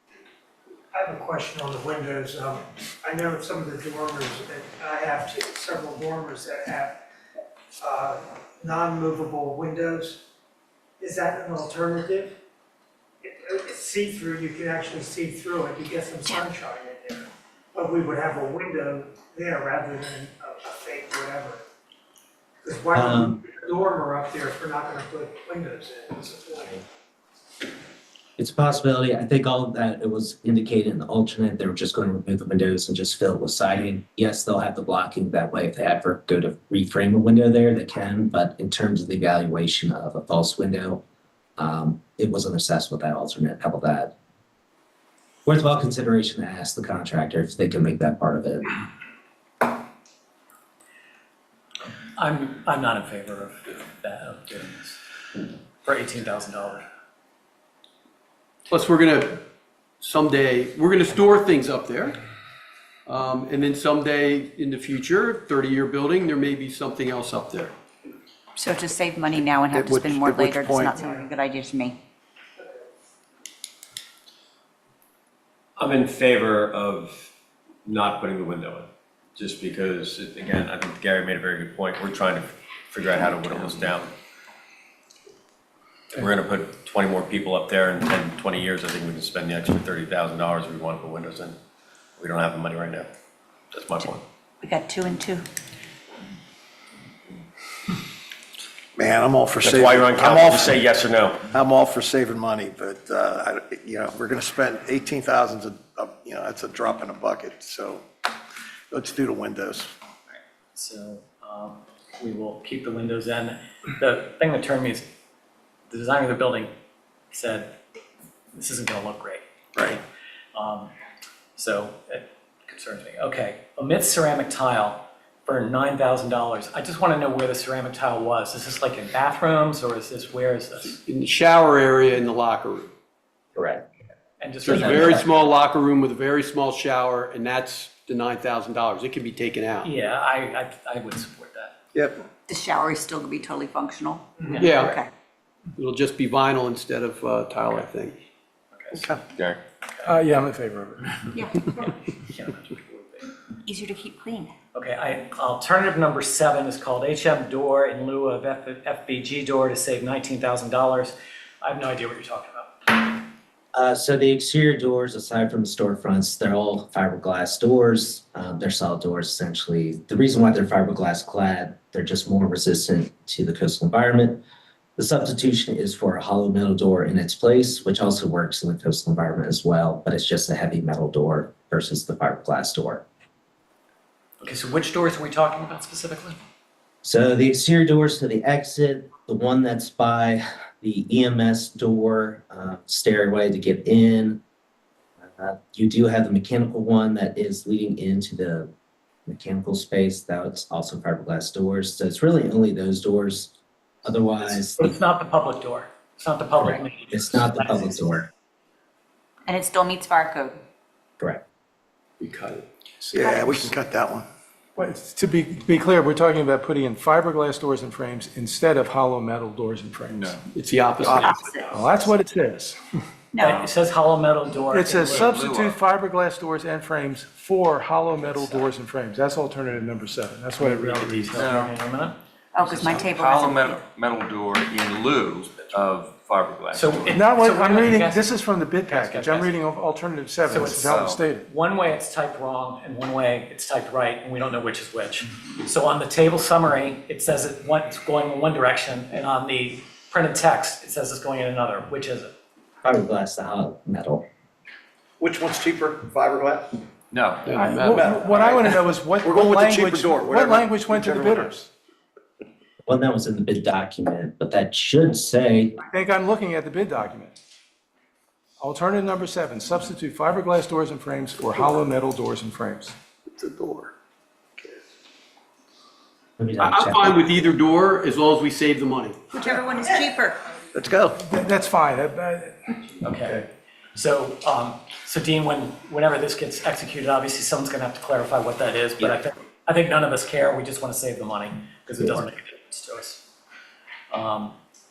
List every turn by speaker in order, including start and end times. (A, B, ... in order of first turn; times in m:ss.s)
0:00.9-0:07.0 A
0:07.8-0:10.2 A
0:11.0-0:12.4 A
0:13.2-0:21.6 A
0:22.6-0:26.8 A
0:22.9-0:23.4 B
0:28.4-0:41.0 B
0:41.6-0:44.1 B
0:45.4-0:48.8 B
0:52.2-0:55.0 C
0:55.8-0:56.9 C
0:58.7-0:59.4 D
1:00.0-1:02.2 D
1:03.1-1:07.7 D
1:08.6-1:12.0 E
1:09.7-1:11.0 F
1:10.9-1:11.2 A
1:15.8-1:17.3 G
1:17.8-1:24.1 G
1:26.1-1:31.6 G
1:32.2-1:33.1 G
1:33.7-1:34.2 G
1:34.6-1:35.4 E
1:39.0-1:40.8 F
1:39.6-1:41.4 G
1:41.5-1:48.0 F
1:48.9-1:49.9 F
1:50.8-1:55.0 C
1:55.9-1:56.7 C
1:57.3-1:57.8 C
1:58.6-1:59.4 C
2:00.6-2:00.9 C
2:01.6-2:11.0 C
2:10.8-2:12.9 D
2:13.6-2:13.8 B
2:14.4-2:15.4 C
2:14.6-2:19.9 D
2:14.7-2:15.2 B
2:19.8-2:21.7 C
2:22.5-2:25.1 E
2:24.5-2:24.8 C
2:24.6-2:25.0 D
2:25.8-2:28.2 D
2:28.8-2:29.1 C
2:30.0-2:31.4 H
2:31.3-2:31.9 E
2:31.8-2:33.3 C
2:33.7-2:34.5 E
2:34.7-2:43.2 C
2:43.7-2:54.4 B
2:55.0-3:03.0 B
3:04.4-3:06.4 C
3:07.0-3:14.4 B
3:15.2-3:18.7 B
3:19.3-3:24.9 B
3:24.8-3:28.2 C
3:26.6-3:28.3 B
3:29.5-3:30.6 E
3:32.2-3:32.7 D
3:33.1-3:34.3 F
3:33.1-3:33.7 E
3:34.8-3:40.4 H
3:40.1-3:40.4 I
3:40.5-3:41.1 D
3:41.0-3:41.5 F
3:41.1-3:41.7 E
3:41.7-3:42.8 H
3:43.3-3:43.7 E
3:43.4-3:45.5 C
3:44.7-3:51.4 H
3:45.0-3:45.8 I
3:48.2-3:48.6 C
3:50.6-3:52.2 C
3:51.4-3:51.7 I
3:52.5-3:53.8 E
3:52.6-3:57.1 I
3:56.7-3:59.5 C
3:57.1-4:01.5 H
4:00.5-4:00.9 C
4:00.8-4:01.3 I
4:01.4-4:12.3 C
4:12.8-4:14.2 B
4:15.2-4:16.8 F
4:17.1-4:17.8 I
4:17.5-4:21.7 H
4:17.8-4:21.5 F
4:22.9-4:25.8 B
4:25.9-4:27.4 H
4:28.6-4:33.0 H
4:33.4-4:33.9 F
4:36.4-4:37.2 B
4:36.6-4:39.2 D
4:39.3-4:40.4 E
4:40.7-4:41.2 F
4:41.2-4:42.7 H
4:43.0-4:53.2 C
4:54.1-4:54.6 C